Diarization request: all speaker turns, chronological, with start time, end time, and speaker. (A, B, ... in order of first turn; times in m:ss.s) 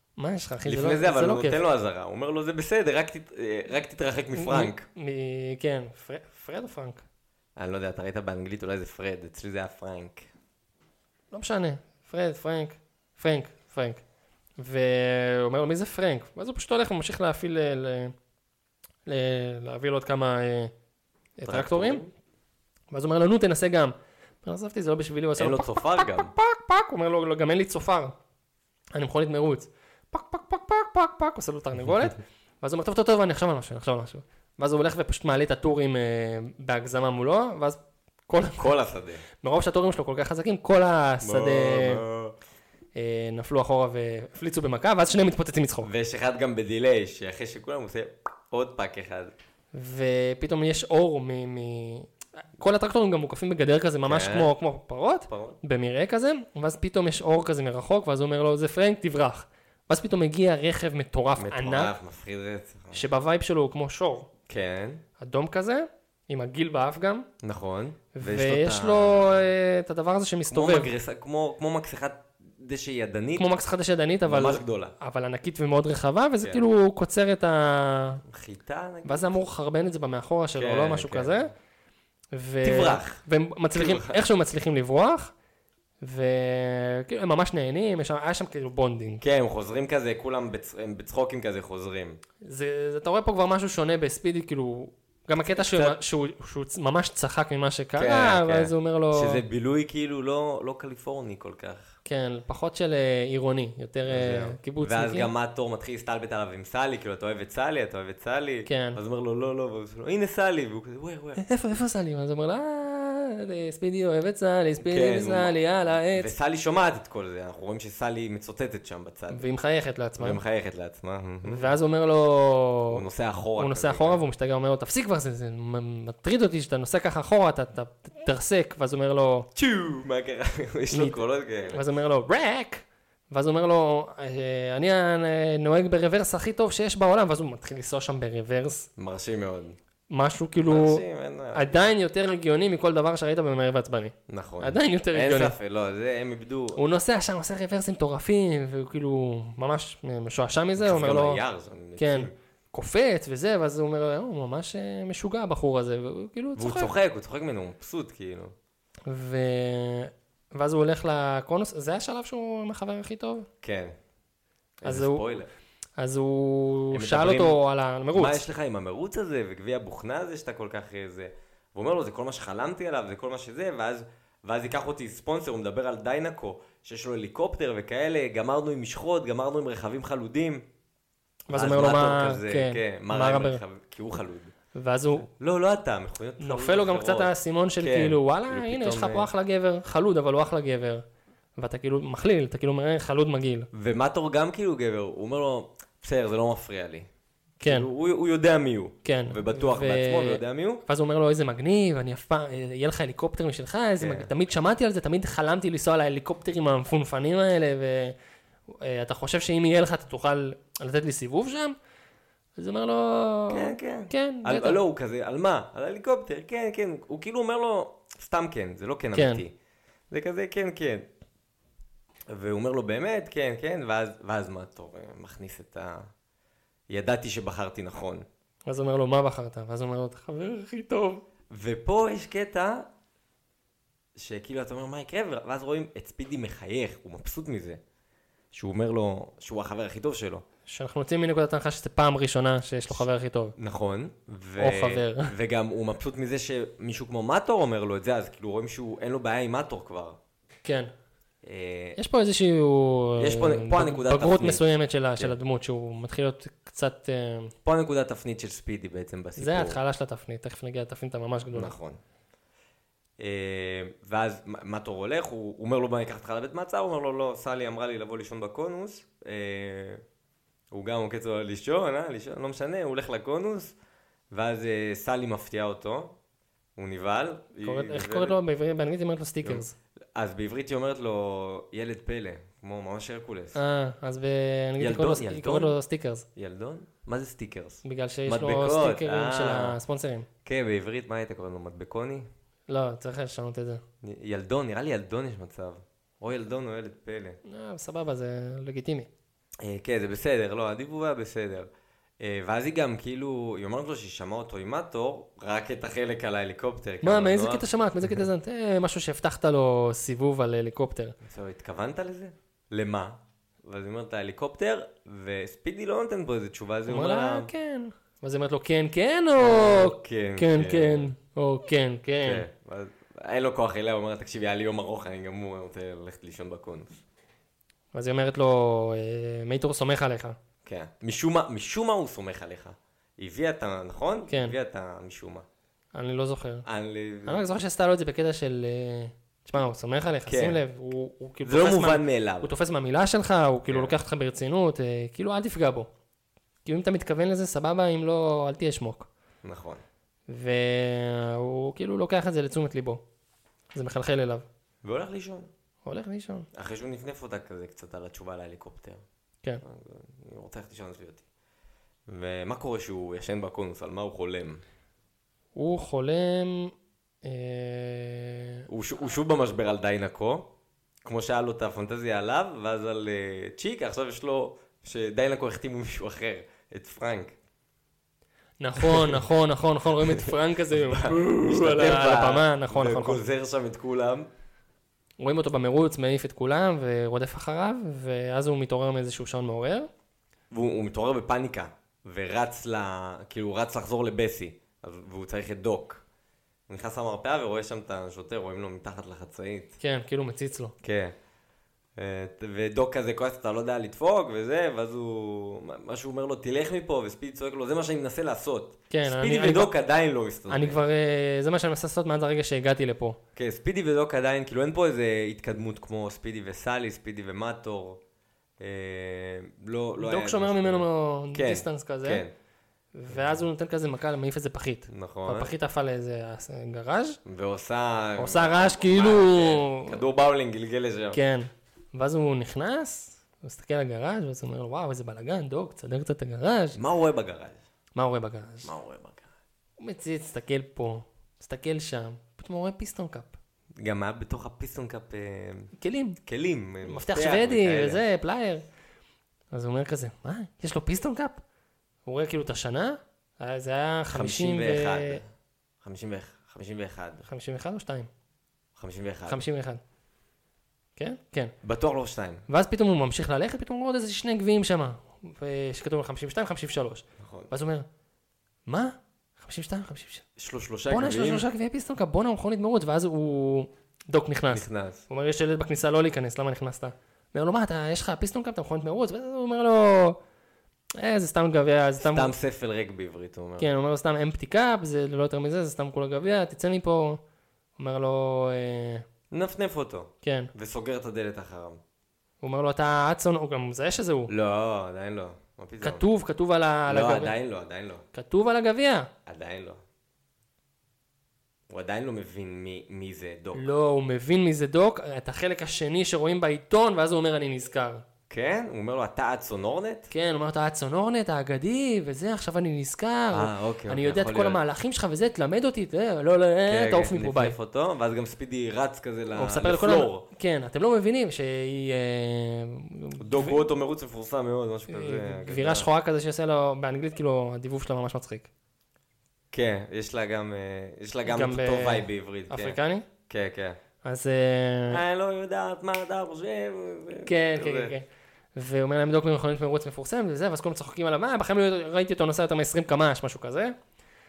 0:00.2-0:01.6 A
0:00.6-0:04.9 B
0:04.4-0:07.0 A
0:07.6-0:10.3 B
0:11.3-0:14.0 A
0:14.6-0:18.2 A
0:19.1-0:20.7 A
0:21.4-0:22.0 A
0:21.4-0:22.1 B
0:22.9-0:28.2 A
0:25.4-0:26.3 B
0:29.0-0:38.7 A
0:38.6-0:39.2 B
0:39.4-0:42.0 A
0:41.2-0:42.4 B
0:43.0-0:45.9 A
0:45.8-0:49.3 B
0:49.7-1:01.9 A
0:54.0-0:54.5 B
0:55.3-0:55.6 B
1:01.4-1:03.0 B
1:02.9-1:04.3 A
1:04.5-1:05.0 B
1:05.2-1:07.3 A
1:07.4-1:09.5 B
1:08.1-1:10.9 A
1:10.5-1:13.5 B
1:13.4-1:18.2 A
1:14.3-1:14.9 B
1:18.2-1:19.3 B
1:19.0-1:21.5 A
1:20.6-1:21.5 B
1:22.3-1:25.3 A
1:22.6-1:23.2 B
1:23.7-1:24.2 B
1:26.0-1:29.2 A
1:29.2-1:32.2 B
1:32.4-1:39.4 A
1:35.6-1:36.0 B
1:38.0-1:42.0 B
1:42.0-1:45.3 A
1:44.1-1:51.4 B
1:48.7-1:49.0 A
1:51.4-1:56.3 A
1:54.8-1:55.5 B
1:56.1-1:59.4 B
1:59.3-2:00.4 A
2:00.2-2:01.7 B
2:01.4-2:03.1 A
2:02.9-2:04.2 B
2:03.6-2:09.5 A
2:09.6-2:11.8 B
2:10.9-2:11.2 A
2:11.7-2:18.9 A
2:19.0-2:19.8 B
2:20.1-2:21.0 A
2:20.6-2:21.9 B
2:21.5-2:25.6 A
2:24.3-2:26.8 B
2:26.8-2:31.4 A
2:30.8-2:32.3 B
2:32.0-2:36.9 A
2:36.6-2:38.5 B
2:39.1-2:43.5 A
2:43.6-2:44.0 B
2:44.8-2:45.5 B
2:44.8-2:45.4 A
2:46.0-2:48.4 A
2:46.9-2:47.6 B
2:48.1-3:00.7 B
3:01.5-3:03.6 A
3:01.5-3:04.5 B
3:04.8-3:05.3 A
3:05.3-3:09.3 B
3:06.4-3:11.0 A
3:11.6-3:13.7 A
3:13.7-3:17.1 B
3:17.6-3:17.9 A
3:17.6-3:20.8 B
3:19.0-3:28.2 A
3:24.0-3:24.3 B
3:28.7-3:31.8 A
3:32.6-3:34.8 A
3:33.5-3:39.5 B
3:39.1-3:39.4 A
3:40.1-3:41.1 B
3:42.3-3:46.1 B
3:46.9-3:48.3 B
3:48.7-3:51.2 A
3:51.5-3:52.9 B
3:54.2-3:57.8 B
3:58.5-4:00.4 B
4:00.7-4:03.6 A
4:03.6-4:10.2 B
4:04.6-4:05.3 A
4:10.6-4:10.9 A
4:11.4-4:12.0 B
4:12.0-4:17.5 A
4:13.2-4:15.4 B
4:17.6-4:19.8 B
4:19.4-4:21.7 A
4:21.5-4:22.0 B
4:23.2-4:30.0 B
4:30.7-4:33.8 B
4:34.3-4:36.2 B
4:36.8-4:38.4 B
4:37.6-4:39.8 A
4:40.2-4:43.6 B
4:43.6-4:46.3 A
4:44.8-4:45.8 B
4:46.4-4:49.8 B
4:47.8-4:50.3 A
4:50.4-4:52.3 B
4:52.7-4:53.8 A
4:54.0-4:57.4 B
4:57.5-4:59.1 A
4:59.6-5:01.7 B
5:02.2-5:07.7 B
5:07.0-5:11.2 A
5:11.2-5:17.5 B
5:16.9-5:22.5 A
5:19.4-5:21.1 B
5:22.2-5:27.0 B
5:27.9-5:30.4 A
5:30.6-5:35.5 B
5:34.3-5:34.6 A
5:35.9-5:36.7 A
5:36.7-5:37.5 B
5:37.3-5:45.9 A
5:40.3-5:40.6 B
5:41.4-5:42.5 B
5:43.7-5:44.0 B
5:46.6-5:49.1 A
5:49.4-5:49.8 B
5:50.3-5:53.0 A
5:53.7-5:54.5 A
5:54.8-5:55.5 B
5:55.8-5:56.5 A
5:56.5-5:59.0 B
5:59.6-6:01.2 B
6:02.1-6:04.6 B
6:05.6-6:08.7 A
6:08.7-6:10.5 B
6:11.0-6:17.4 B
6:18.6-6:23.2 A
6:18.8-6:19.2 B
6:20.0-6:24.3 B
6:25.2-6:29.9 A
6:30.5-6:36.0 B
6:36.7-6:39.8 B
6:39.8-6:40.7 A
6:40.8-6:41.2 B
6:42.0-6:50.8 B
6:48.9-6:49.7 A
6:50.5-6:53.2 A
6:53.4-6:58.0 B
6:58.6-7:02.3 B
7:00.0-7:02.2 A
7:03.0-7:07.2 A
7:03.1-7:03.4 B
7:04.9-7:05.5 B
7:07.3-7:11.2 B
7:08.2-7:10.0 A
7:11.1-7:16.8 A
7:16.8-7:17.6 B
7:18.0-7:18.7 A
7:18.6-7:19.3 B
7:19.8-7:23.4 A
7:23.8-7:25.7 B
7:25.8-7:26.2 A
7:26.2-7:28.0 B
7:26.8-7:28.6 A
7:29.5-7:31.4 A
7:32.1-7:35.2 A
7:34.1-7:35.3 B
7:35.8-7:37.3 B
7:37.2-7:38.1 A
7:38.8-7:39.4 B
7:39.3-7:39.8 A
7:41.0-7:41.5 A
7:41.6-7:42.5 B
7:42.5-7:47.9 A
7:47.2-7:47.5 B
7:48.7-7:50.2 A
7:50.4-7:51.5 B
7:50.9-8:00.2 A
7:54.5-7:55.1 B
8:01.0-8:02.3 A
8:02.0-8:03.7 B
8:03.6-8:07.2 A
8:07.8-8:09.0 A
8:09.3-8:11.8 B
8:10.2-8:10.5 A
8:12.4-8:14.3 A
8:14.3-8:16.0 B
8:15.8-8:17.3 A
8:16.9-8:18.0 B
8:18.1-8:19.1 A
8:19.3-8:19.8 B
8:21.7-8:23.7 B
8:23.5-8:28.0 A
8:28.3-8:30.1 B
8:30.1-8:37.6 A
8:33.3-8:34.6 B
8:36.7-8:40.3 B
8:39.4-8:43.6 A
8:43.2-8:45.9 B
8:44.9-8:48.5 A
8:49.5-8:52.8 B
8:51.3-8:53.1 A
8:53.3-8:53.8 B
8:54.0-8:55.0 A
8:54.9-8:58.0 B
8:57.2-9:03.8 A